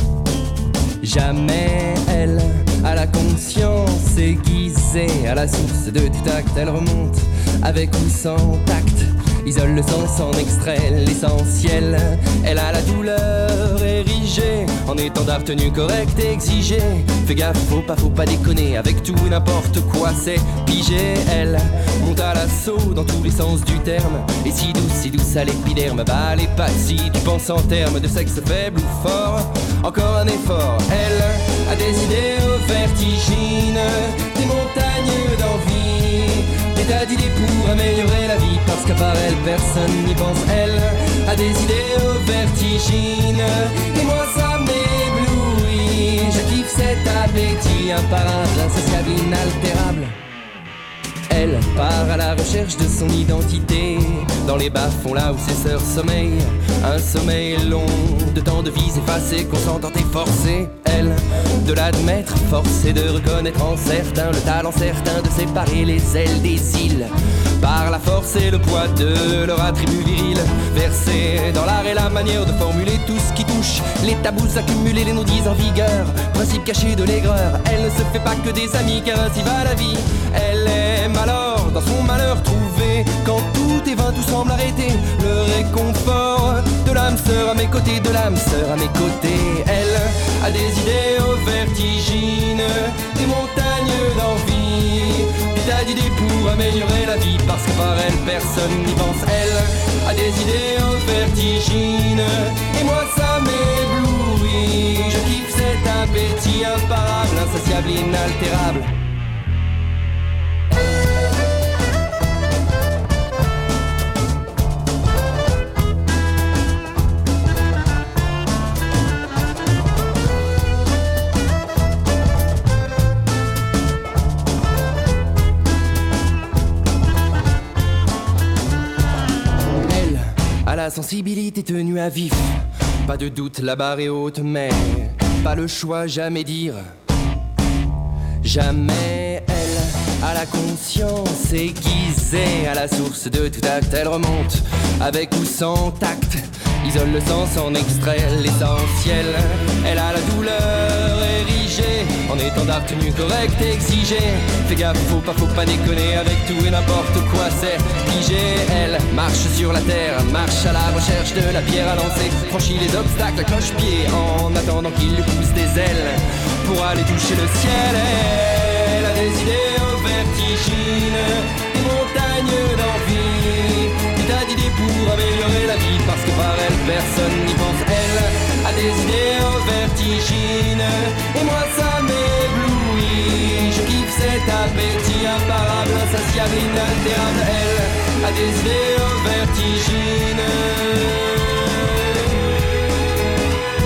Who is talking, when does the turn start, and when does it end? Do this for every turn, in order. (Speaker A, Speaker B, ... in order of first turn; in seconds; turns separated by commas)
Speaker A: 1.0-50.1, Speaker A: 51.3-108.9, Speaker A: 129.7-136.8, Speaker A: 138.4-192.7